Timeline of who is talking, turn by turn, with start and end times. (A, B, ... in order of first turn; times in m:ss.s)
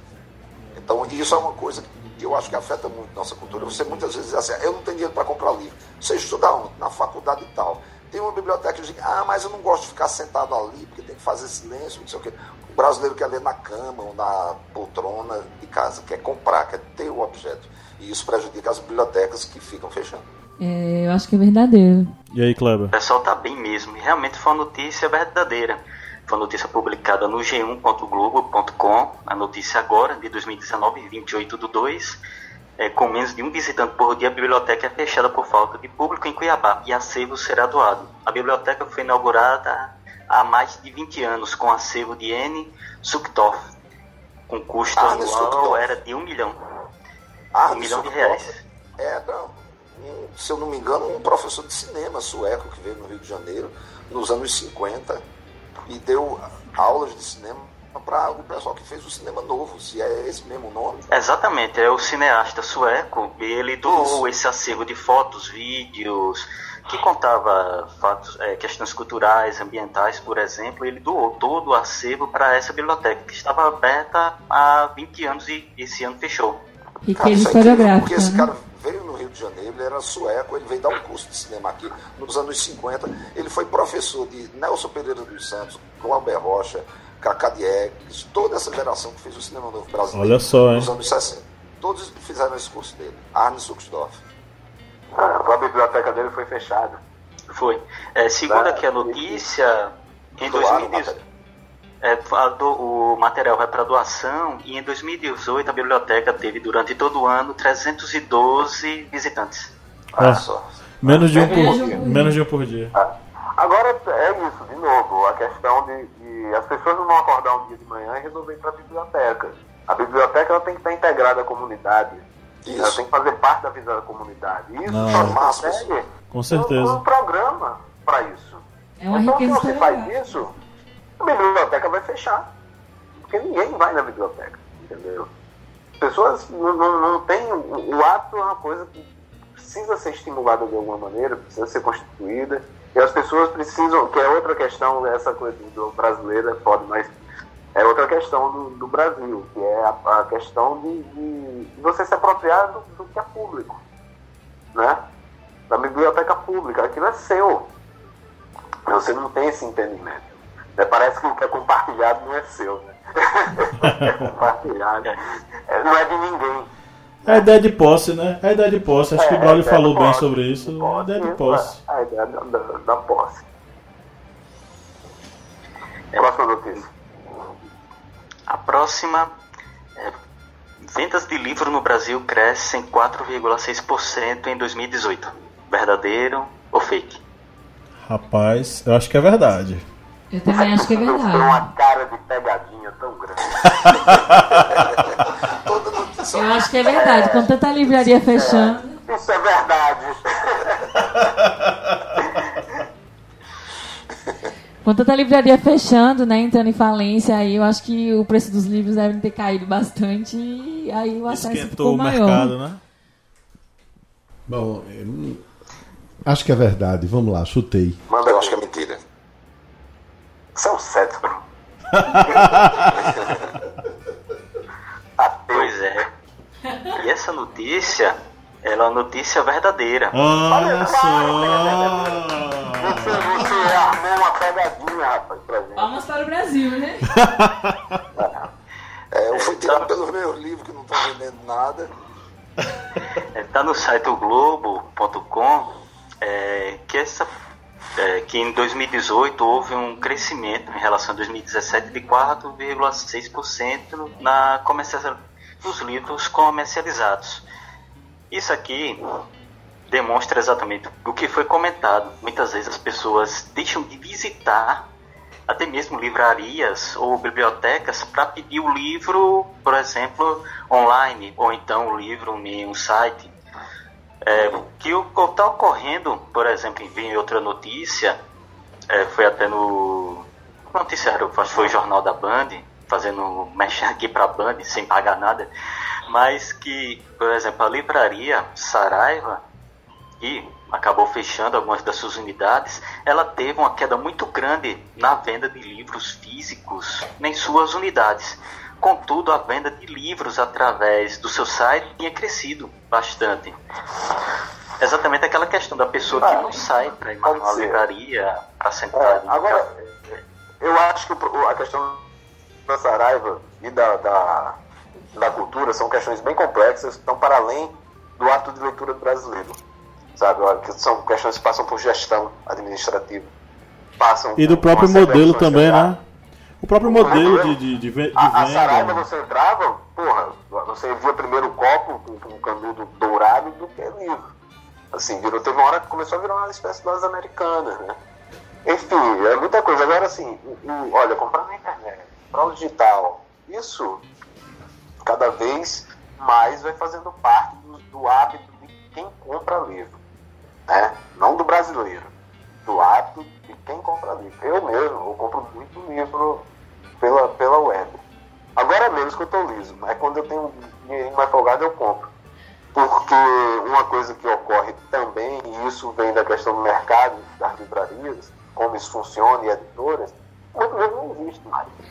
0:00.7-0:20.2 A
0:20.6-0:22.1 B
0:22.3-0:22.9 C
0:22.9-0:32.2 D
0:32.8-0:43.7 D
0:44.5-0:46.6 D
0:44.9-0:45.9 A
0:47.5-0:55.2 A
0:47.7-0:48.6 D
0:55.9-1:01.0 A
1:01.1-1:16.6 D
1:17.0-1:18.5 B
1:17.2-1:34.2 A
1:30.1-1:30.9 C
1:35.2-1:37.0 E
1:37.5-1:41.2 D
1:38.5-1:39.5 E
1:40.5-1:41.1 A
1:42.0-1:49.7 D
1:50.2-1:52.0 E
1:50.2-1:50.4 C
1:50.2-1:50.6 A
1:51.0-1:52.9 C
1:51.4-1:52.4 B
1:52.9-2:02.2 E
2:02.6-2:03.0 A
2:02.8-2:10.5 E
2:04.9-2:05.4 C
2:05.1-2:05.9 A
2:06.3-2:07.0 C
2:09.0-2:10.2 B
2:11.2-2:12.5 E
2:13.2-2:15.3 E
2:16.0-2:27.1 E
2:27.7-2:33.8 E
2:34.7-2:35.0 E
2:35.7-2:37.7 E
2:38.8-2:46.7 E
2:43.8-2:44.3 C
2:47.2-2:51.8 C
2:49.1-2:53.4 E
2:56.1-2:56.9 E
2:58.5-2:59.3 D
3:00.8-3:07.2 D
3:08.0-3:09.8 C
3:10.3-3:11.7 B
3:10.6-3:14.2 E
3:13.8-3:14.6 C
3:15.4-3:16.6 A
3:16.3-3:19.0 B
3:16.8-3:17.6 E
3:18.3-3:21.0 E
3:21.4-3:21.7 C
3:24.8-3:32.5 B
3:31.3-3:32.8 C
3:34.5-3:35.4 F
3:36.2-3:38.0 F
3:38.1-3:38.6 E
3:38.2-3:39.0 A
3:40.5-3:41.4 E
3:41.9-3:43.2 C
3:45.2-3:45.8 E
3:45.5-3:46.1 D
3:46.9-3:50.2 D
3:50.1-3:53.4 C
3:50.4-3:55.9 E
3:53.4-3:54.0 B
3:55.7-3:57.2 B
3:57.1-3:58.0 C
3:58.2-3:58.5 E
3:59.1-4:01.9 A
3:59.3-3:59.9 D
4:03.3-4:05.7 D
4:06.2-4:07.3 D
4:08.0-4:17.4 D
4:18.3-4:19.2 D
4:19.9-4:24.9 D
4:25.5-4:33.3 D
4:34.2-4:38.2 D
4:38.9-4:45.5 D
4:46.1-4:49.4 D
4:50.2-5:03.6 D
5:04.8-5:09.6 D
5:06.2-5:06.6 E
5:07.2-5:07.8 E
5:08.9-5:12.0 E
5:12.7-5:14.6 E
5:15.1-5:19.6 E
5:20.2-5:23.3 E
5:24.0-5:25.9 E
5:24.4-5:26.0 C
5:26.6-5:29.0 C
5:26.8-5:27.6 E
5:28.1-5:34.3 E
5:34.9-5:38.0 E
5:38.6-5:44.0 E
5:45.0-5:50.0 E
5:50.7-5:52.1 E
5:52.6-5:56.4 E
5:57.0-5:58.0 E
5:58.6-6:02.1 E
6:02.7-6:11.7 E